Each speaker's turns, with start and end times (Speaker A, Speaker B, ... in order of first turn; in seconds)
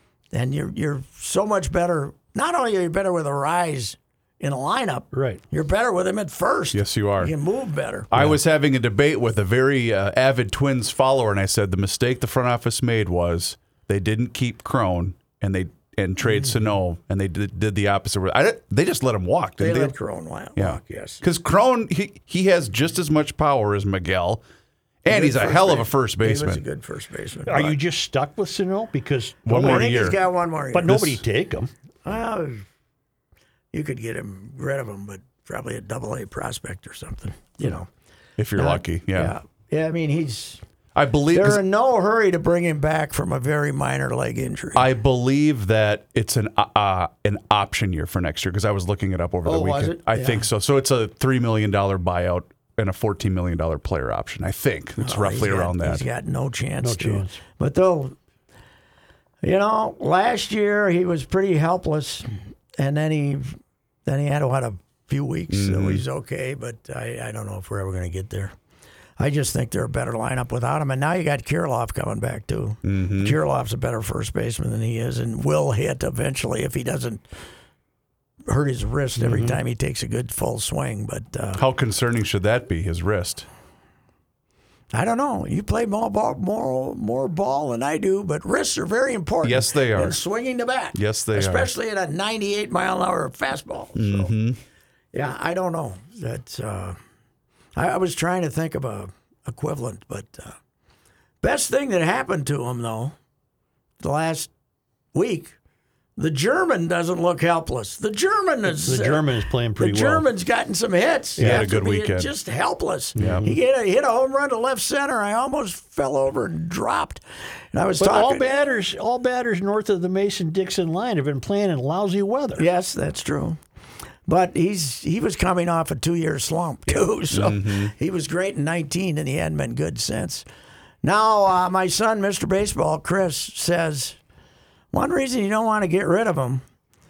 Speaker A: 0.3-8.1, 19.6-21.2, 25.1-27.8, 29.5-31.0, 32.0-32.6, 33.7-37.9, 38.6-40.6, 41.3-44.9, 49.5-50.5, 55.0-58.1, 59.4-68.5, 69.2-77.2, 78.5-81.6, 84.9-94.3, 95.1-97.0, 97.8-100.6, 101.4-103.2, 104.0-104.5, 105.1-105.6, 106.2-109.3, 109.8-117.2, 117.7-118.5, 122.6-123.6, 124.3-130.5, 131.0-134.2, 134.9-136.6
Speaker B: 5.1-5.4, 27.5-30.1, 30.7-31.7, 56.8-57.4, 79.2-79.6, 108.7-110.3, 111.4-111.6, 113.2-113.6, 118.0-122.7
Speaker C: 6.7-7.3, 8.1-19.9, 20.6-24.4, 25.0-26.6, 29.5-30.2, 30.9-31.2, 38.4-39.4, 41.0-41.6, 44.8-56.0, 65.5-66.0, 72.8-73.4, 81.6-83.5, 89.4-90.2, 90.9-91.7, 94.0-94.6, 111.4-112.3, 113.2-113.5, 127.3-127.9